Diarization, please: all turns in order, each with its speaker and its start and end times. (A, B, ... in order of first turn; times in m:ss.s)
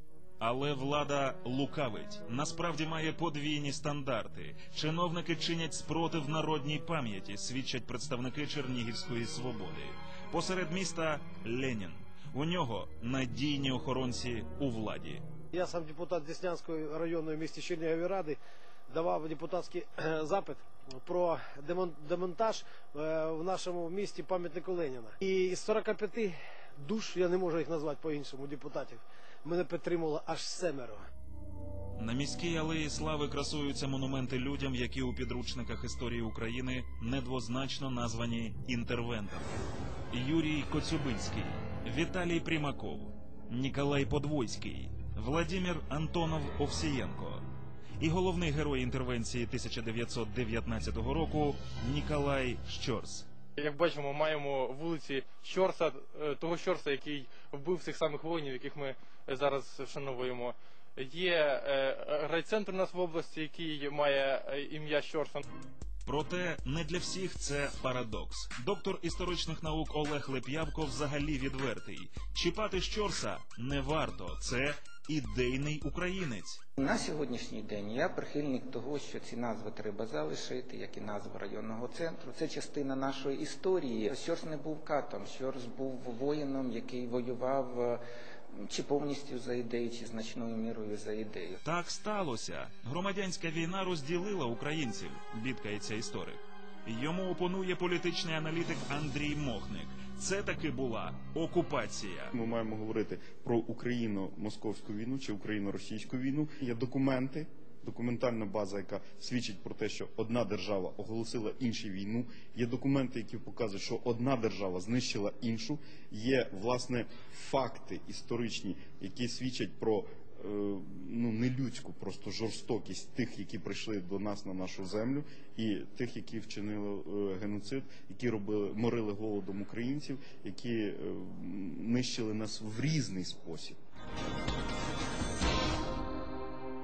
0:00.4-0:15.2 A
0:15.5-0:31.0 B
0:32.0-0:39.5 A
0:40.1-0:47.4 A
0:48.0-0:53.3 A
0:53.6-1:05.4 C
1:06.0-1:16.6 A
1:16.8-1:31.6 D
1:31.6-1:42.3 A
1:42.3-2:13.8 E